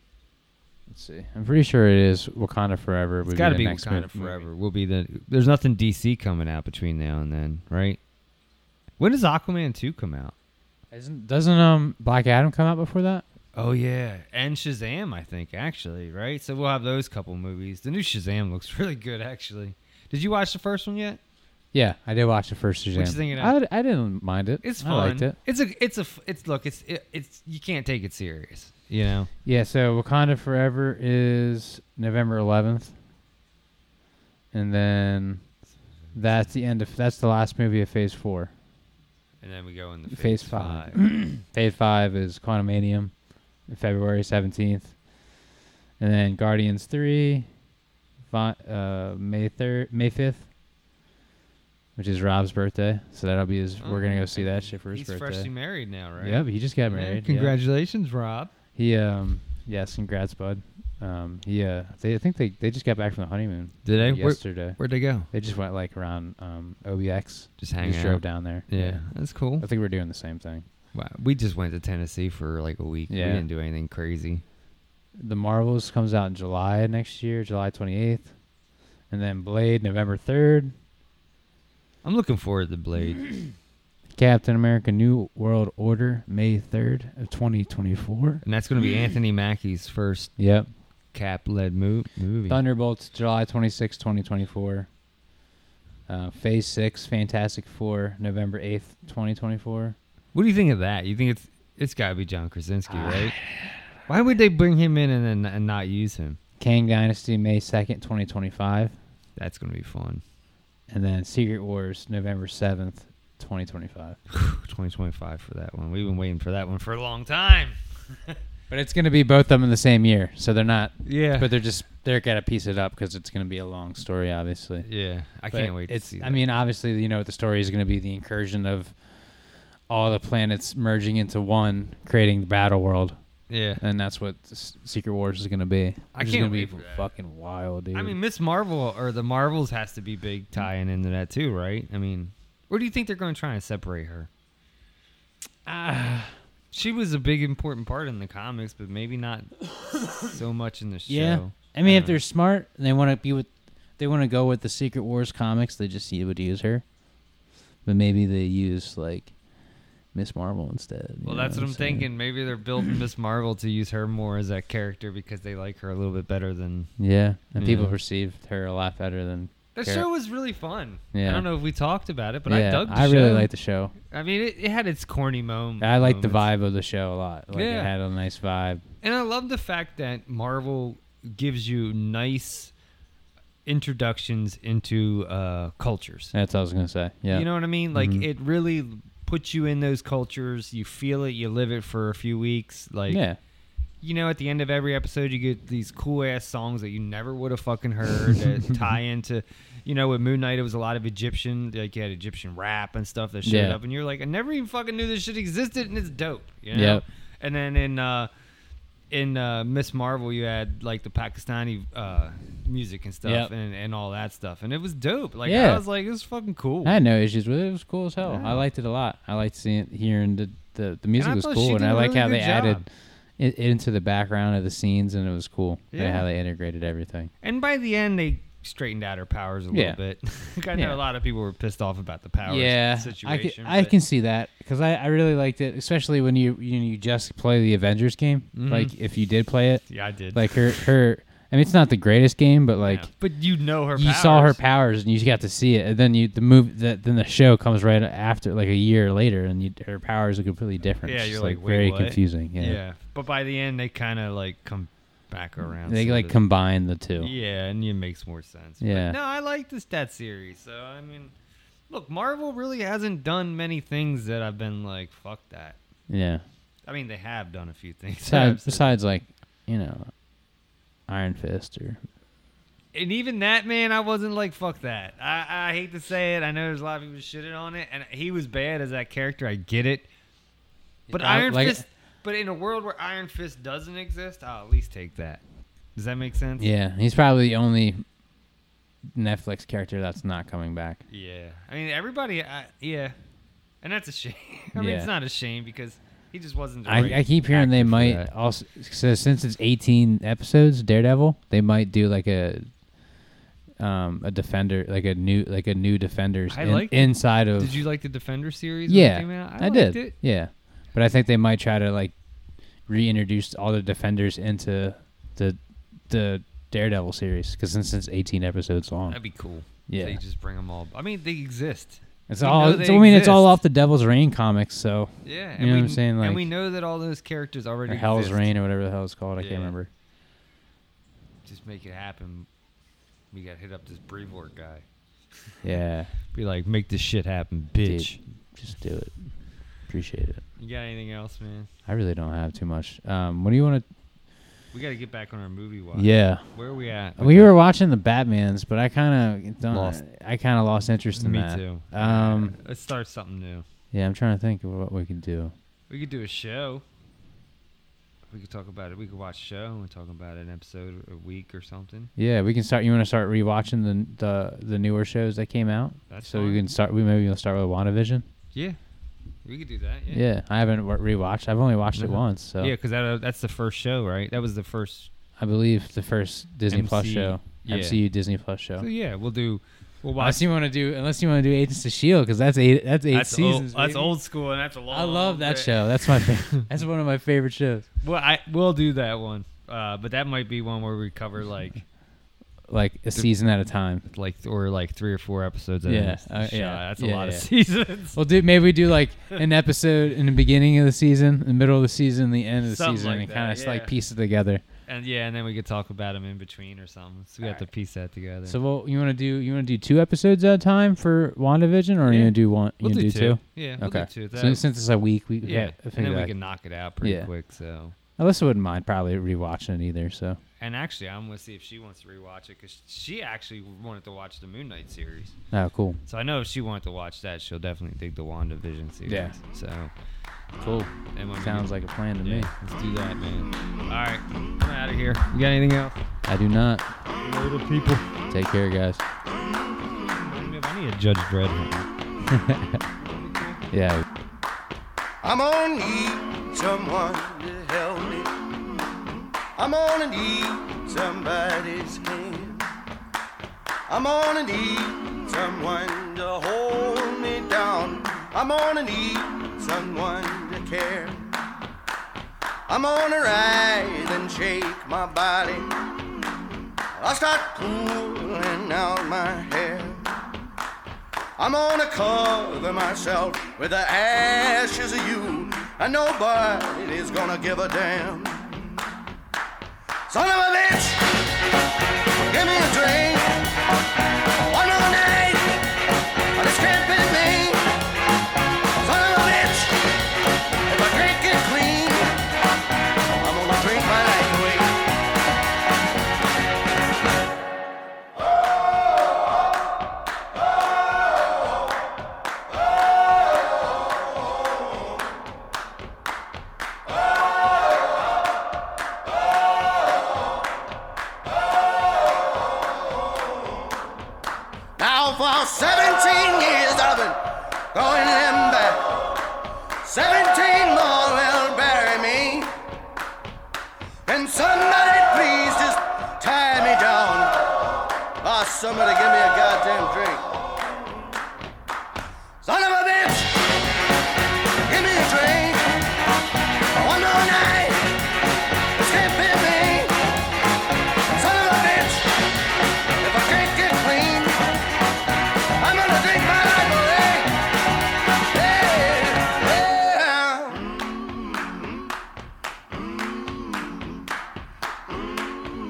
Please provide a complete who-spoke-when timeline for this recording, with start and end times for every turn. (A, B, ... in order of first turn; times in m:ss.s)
0:00.9-0:04.4 A
0:03.3-0:08.0 B
0:09.0-0:10.3 B
0:10.9-0:13.2 A
0:13.5-0:21.2 B
0:21.7-0:25.3 A
0:22.9-0:23.6 B
0:24.6-0:29.3 B
0:29.4-0:32.9 A
0:34.5-0:35.4 A
0:36.1-0:36.4 B
0:36.1-0:38.5 A
0:39.4-0:41.0 B
0:40.1-0:43.1 A
0:43.7-0:45.0 A
0:46.0-0:47.5 A
0:48.3-0:50.5 A
0:52.0-0:55.5 A
0:53.8-0:58.5 B
0:56.2-0:57.5 A
0:58.8-1:04.8 A
1:03.8-1:05.3 B
1:05.3-1:10.6 A
1:07.6-1:09.6 B
1:10.9-1:14.4 B
1:13.1-1:13.4 A
1:15.2-1:18.3 A
1:19.1-1:20.7 A
1:22.0-1:23.4 B
1:24.2-1:28.4 A
1:28.4-1:30.4 B
1:30.4-1:30.7 A
1:31.1-1:32.6 B
1:32.5-1:34.9 A
1:36.1-1:40.0 A
1:40.3-1:43.4 B
1:42.9-1:43.8 A
1:44.1-1:46.4 B
1:46.6-1:49.0 A
1:49.4-1:50.2 B
1:50.9-1:54.2 A
1:54.3-1:58.4 B
1:58.7-2:04.8 A
2:01.0-2:01.5 B
2:04.8-2:06.4 B
2:05.5-2:08.9 A
2:09.9-2:13.2 A
2:13.5-2:13.8 B
2:13.8-2:18.2 A
2:16.1-2:17.1 B
2:17.9-2:24.3 B
2:25.6-2:26.3 A
2:26.7-2:32.2 B
2:31.1-2:36.8 A
2:37.8-2:39.3 A
2:40.1-2:42.1 A
2:41.2-2:46.9 B
2:47.0-2:50.0 A
2:47.6-2:48.0 B
2:49.7-2:53.5 B
2:51.1-2:51.4 A
2:52.5-2:53.9 A
2:54.1-2:56.5 B
2:55.8-2:58.8 A
2:57.5-2:57.9 B
2:59.0-3:02.7 B
3:03.6-3:06.3 B
3:06.3-3:08.2 A
3:07.3-3:13.2 B
3:13.1-3:13.4 A
3:14.0-3:28.3 B
3:23.4-3:23.8 A
3:26.7-3:27.0 A
3:29.1-3:37.0 B
3:33.2-3:33.5 A
3:35.4-3:35.8 A
3:36.8-3:42.8 A
3:38.2-3:38.6 B
3:41.2-3:42.8 B
3:43.4-3:47.3 A
3:45.9-3:46.3 B
3:47.4-3:53.9 B
3:49.7-3:50.0 A
3:50.7-3:51.0 A
3:52.4-4:03.1 A
3:58.5-3:58.9 B
3:59.9-4:00.9 B
4:02.8-4:04.6 B
4:03.9-4:12.8 A
4:11.0-4:16.4 B
4:15.8-4:17.3 A
4:17.2-4:21.3 B
4:18.8-4:19.2 A
4:21.9-4:25.8 B
4:26.1-4:26.4 A
4:26.8-4:28.9 B
4:28.2-4:30.1 A
4:31.1-4:32.0 A
4:32.9-4:40.1 B
4:41.1-4:41.8 A
4:41.1-4:45.4 B
4:45.9-4:46.7 B
4:46.6-4:48.0 A
4:49.1-4:51.0 A
4:51.1-4:53.2 B
4:53.8-4:58.3 B
4:54.7-4:55.1 A
4:56.8-5:02.7 A
5:03.8-5:07.7 A
5:06.5-5:10.1 B
5:08.9-5:12.1 A
5:12.9-5:15.6 A
5:16.1-5:19.2 A
5:19.1-5:23.6 B
5:19.9-5:20.2 A
5:22.3-5:26.5 A
5:25.2-5:28.5 B
5:27.9-5:29.9 A
5:29.4-5:29.7 B
5:31.4-5:32.5 B
5:33.3-5:34.8 B
5:35.6-5:36.1 A
5:36.3-5:38.2 B
5:37.8-5:39.2 A
5:39.9-5:40.4 A
5:40.6-5:41.7 B
5:41.9-5:43.8 A
5:44.7-5:47.5 B
5:45.9-5:46.5 A
5:47.2-5:52.6 A
5:49.7-5:50.0 B
5:51.2-5:53.6 B
5:53.9-5:55.5 A
5:55.9-5:56.8 B
5:58.3-6:02.1 B
6:02.2-6:08.2 A
6:06.1-6:06.6 B
6:08.5-6:08.8 B
6:09.4-6:10.2 B
6:10.1-6:12.7 A
6:12.0-6:15.1 B
6:15.4-6:18.8 A
6:16.7-6:18.0 B
6:18.8-6:20.4 B
6:20.2-6:24.1 A
6:23.1-6:26.6 B
6:24.9-6:27.9 A
6:28.0-6:31.8 B
6:32.7-6:34.0 A
6:34.1-6:38.2 B
6:35.8-6:37.5 A
6:38.1-6:44.6 A
6:42.6-6:43.9 B
6:44.8-6:48.6 B
6:47.4-6:47.7 A
6:48.4-6:56.3 A
6:52.0-6:54.6 B
6:55.4-6:57.9 B
6:57.0-6:57.3 A
6:58.2-7:00.4 A
7:00.6-7:05.4 B
7:05.5-7:06.0 A
7:06.0-7:09.9 B
7:09.0-7:09.4 A
7:10.6-7:16.0 B
7:10.6-7:12.5 A
7:16.3-7:16.9 A
7:17.2-7:18.1 B
7:18.3-7:19.0 A
7:19.9-7:21.9 B
7:22.3-7:22.8 A
7:23.0-7:23.6 B
7:23.7-7:24.0 A
7:25.2-7:28.3 C
7:29.6-7:32.7 C
7:33.9-7:41.3 C
7:42.7-7:45.7 C
7:46.9-7:50.1 C
7:51.4-7:58.6 C
8:00.1-8:01.0 C
8:02.3-8:03.4 C
8:04.5-8:05.6 C
8:06.3-8:07.7 C
8:08.8-8:09.8 C
8:10.7-8:12.2 C
8:13.2-8:14.7 C
8:34.8-8:37.2 C
8:37.7-8:38.9 C
8:39.8-8:42.6 C
8:44.0-8:47.4 C
8:48.2-8:50.3 C
8:52.4-8:53.4 C
8:54.7-8:55.7 C
8:56.8-8:57.9 C
8:58.7-8:59.9 C
9:01.1-9:02.1 C
9:03.0-9:04.4 C
9:05.6-9:07.3 C
9:08.2-9:11.0 C